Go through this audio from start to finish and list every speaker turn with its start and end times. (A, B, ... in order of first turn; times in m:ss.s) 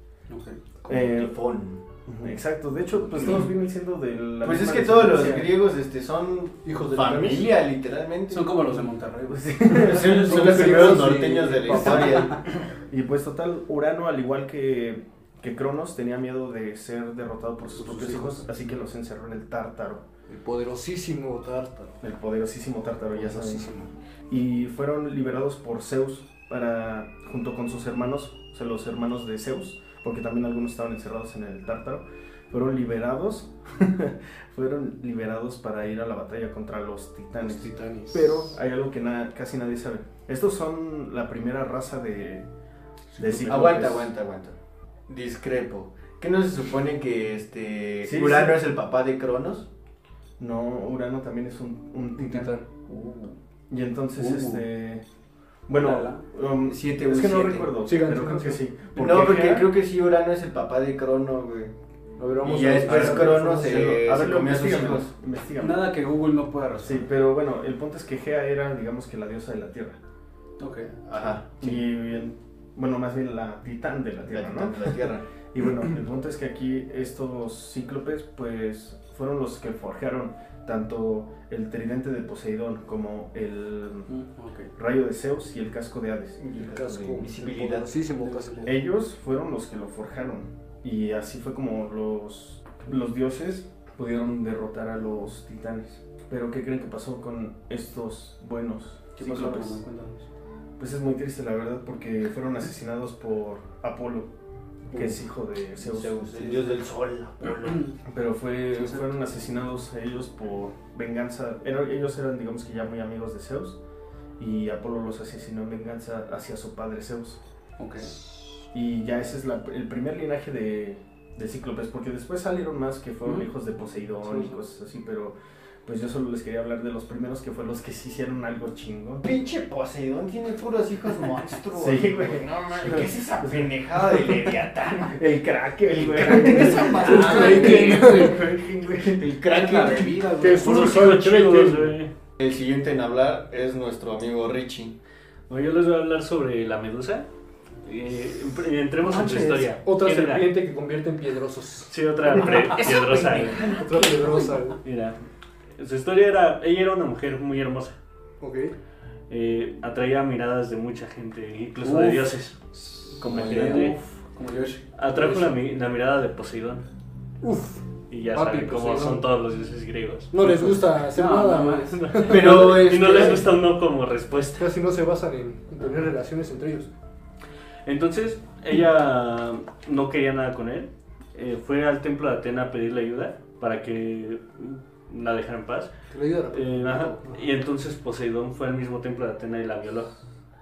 0:00.3-0:00.6 A
0:00.9-0:01.3 B
0:00.9-0:01.8 C
0:02.0-0:05.6 B
0:03.2-0:03.5 C
0:04.4-0:08.6 C
0:06.6-0:07.5 D
0:08.3-0:10.8 A
0:09.3-0:10.8 B
0:09.8-0:12.5 C
0:10.1-0:12.4 D
0:11.7-0:12.3 A
0:12.9-0:20.0 B
0:17.8-0:18.5 D
0:20.3-0:22.0 D
0:22.0-0:23.7 B
0:23.1-0:23.9 D
0:24.3-0:42.4 B
0:37.4-0:38.5 D
0:43.2-0:44.1 B
0:43.3-0:44.6 C
0:45.1-0:49.7 C
0:48.0-0:48.6 B
0:50.4-0:52.6 B
0:52.2-0:52.6 D
0:52.9-0:53.3 C
0:53.7-0:55.0 B
0:54.2-0:54.6 A
0:55.7-0:59.7 B
0:55.8-0:56.2 A
0:56.6-0:57.7 C
0:57.8-0:58.6 D
0:58.9-1:01.7 C
1:02.2-1:04.0 D
1:02.4-1:05.1 C
1:02.8-1:05.9 B
1:05.6-1:07.1 A
1:06.8-1:10.0 B
1:10.6-1:11.0 A
1:11.0-1:11.8 C
1:11.2-1:24.1 B
1:14.3-1:15.2 C
1:24.1-1:24.7 A
1:24.8-1:26.4 B
1:26.4-1:27.9 C
1:26.7-1:28.8 D
1:28.1-1:28.7 A
1:28.6-1:39.8 B
1:39.2-1:40.2 A
1:40.8-1:44.3 B
1:44.9-1:46.6 B
1:45.8-1:47.9 C
1:47.6-1:48.0 A
1:48.0-1:53.8 B
1:48.7-1:49.1 A
1:54.4-1:57.4 B
1:57.8-1:58.1 A
1:58.7-2:09.2 B
2:04.2-2:04.5 A
2:09.2-2:15.2 C
2:11.8-2:14.5 B
2:15.0-2:19.2 B
2:15.9-2:18.3 C
2:16.2-2:18.4 D
2:16.9-2:18.1 A
2:19.1-2:20.6 C
2:19.5-2:20.6 A
2:20.4-2:22.0 D
2:20.5-2:22.1 E
2:22.4-2:25.0 C
2:25.5-2:27.3 E
2:27.8-2:30.5 E
2:29.0-2:31.9 D
2:31.9-2:33.8 E
2:32.4-2:34.6 C
2:33.7-2:34.8 D
2:34.8-2:35.2 E
2:35.8-2:38.0 E
2:38.4-2:38.8 D
2:39.3-2:42.6 E
2:41.8-2:42.3 A
2:43.1-2:44.0 C
2:43.2-2:44.0 E
2:44.2-2:44.9 A
2:45.0-2:46.8 E
2:45.2-2:45.5 D
2:47.4-2:49.2 D
2:48.1-2:50.5 E
2:50.3-2:52.6 D
2:51.1-2:52.2 A
2:52.0-2:54.7 E
2:52.2-2:53.6 C
2:54.6-2:56.9 D
2:57.8-3:05.9 E
3:06.1-3:07.4 D
3:06.5-3:10.2 E